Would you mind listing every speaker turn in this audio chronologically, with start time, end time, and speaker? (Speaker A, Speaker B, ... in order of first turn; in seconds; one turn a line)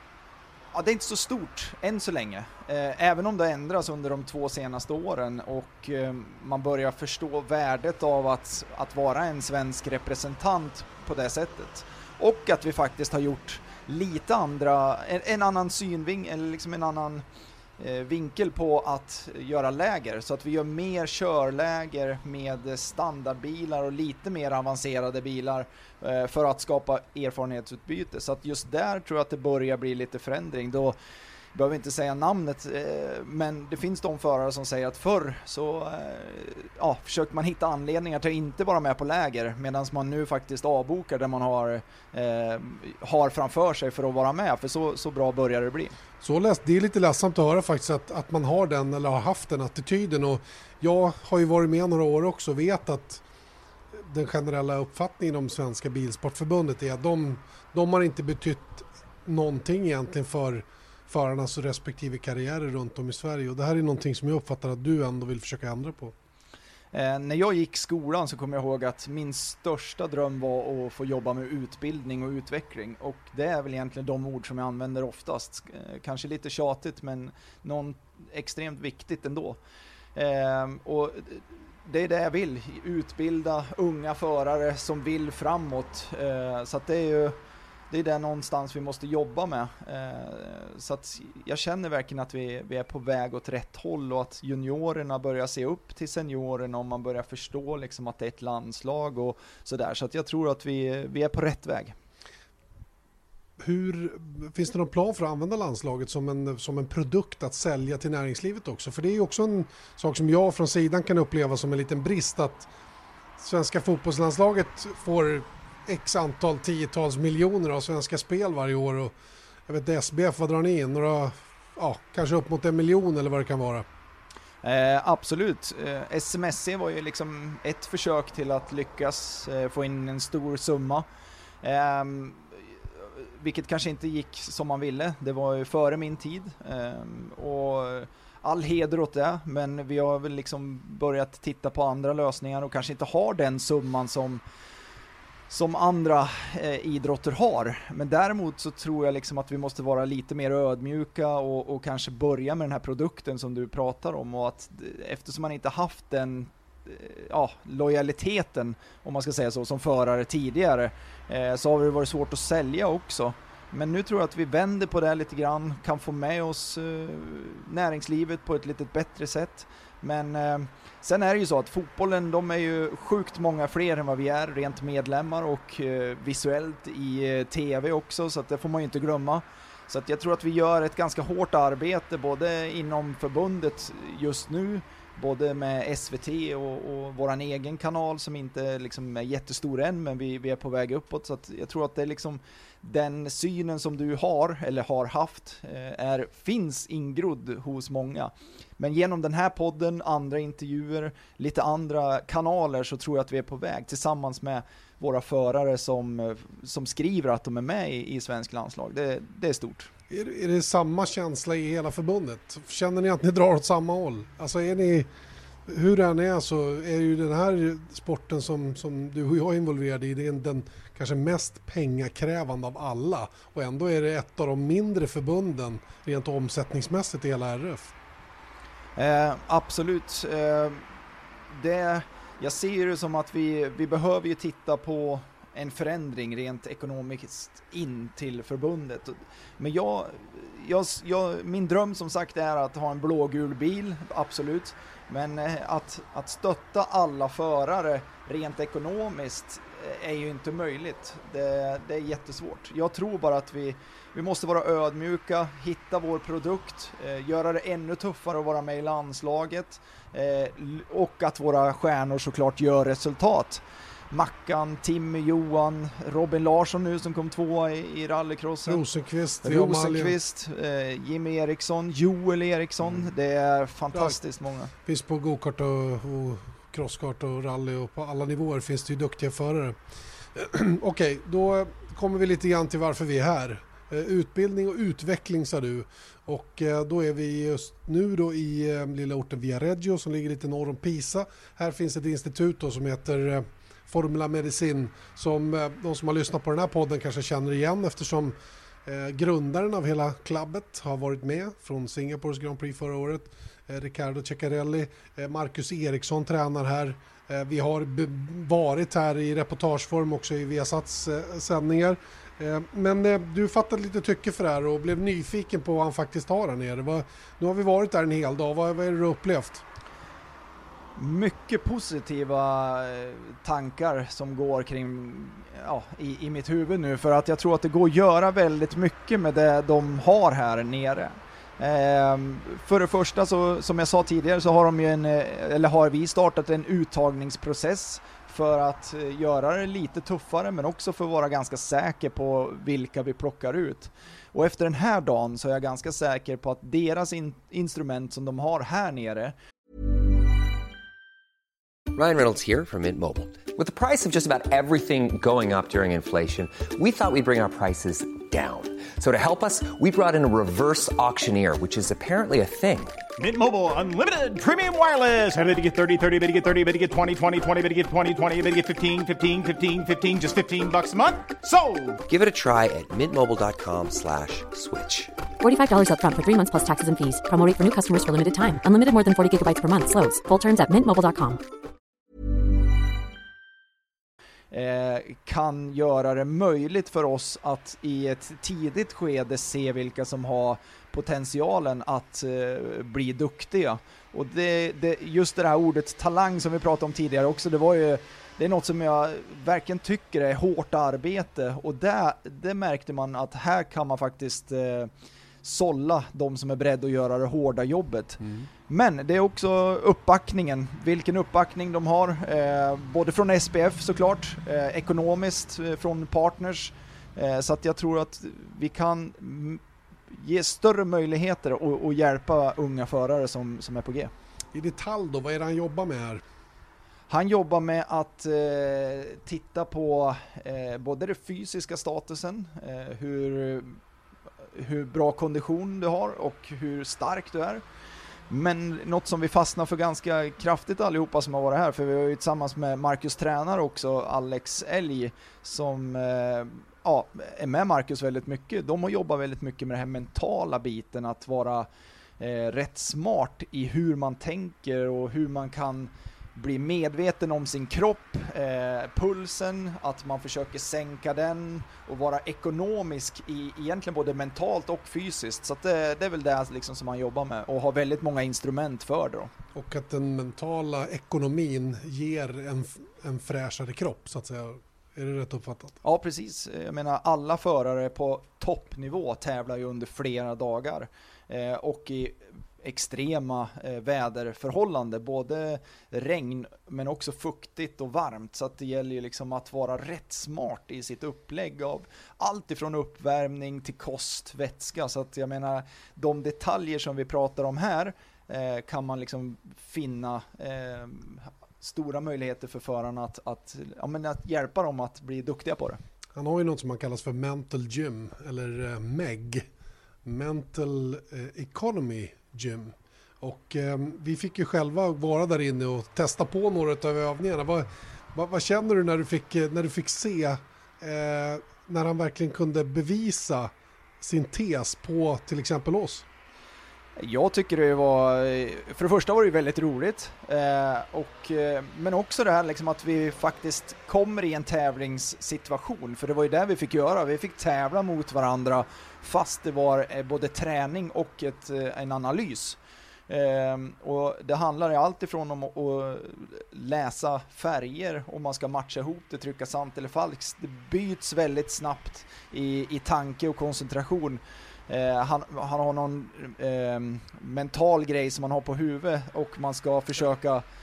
Speaker A: 0.7-17.2
Speaker A: 17.8-31.0
Speaker A: 31.6-46.0
Speaker B: 46.2-53.2
Speaker B: 53.9-66.1
Speaker A: 66.9-79.6
Speaker A: 80.2-87.4
Speaker A: 87.9-102.0
Speaker B: 103.6-112.7
Speaker B: 113.4-119.1
Speaker B: 119.7-123.9
Speaker A: 124.6-131.1
Speaker A: 131.6-132.5
Speaker A: 133.0-144.4
Speaker A: 145.5-209.9
Speaker B: 210.1-215.1
Speaker B: 215.7-227.9
Speaker A: 229.0-230.8
Speaker A: 231.5-268.8
Speaker B: 268.6-270.2
Speaker A: 269.4-274.7
Speaker B: 274.9-279.8
Speaker B: 280.4-319.6
Speaker A: 321.0-349.4
Speaker C: 351.9-363.0
Speaker D: 363.2-372.0
Speaker C: 372.1-375.1
Speaker E: 375.4-381.4
Speaker A: 384.5-404.9
Speaker A: 405.4-424.1
Speaker B: 408.2-408.5
Speaker B: 424.5-426.2
Speaker A: 427.1-433.8
Speaker A: 434.6-437.6
Speaker A: 438.3-451.7
Speaker A: 452.2-469.3
Speaker B: 469.5-475.8
Speaker A: 475.8-505.8
Speaker B: 506.1-509.5
Speaker B: 510.0-526.0
Speaker A: 527.0-542.6
Speaker A: 543.1-560.5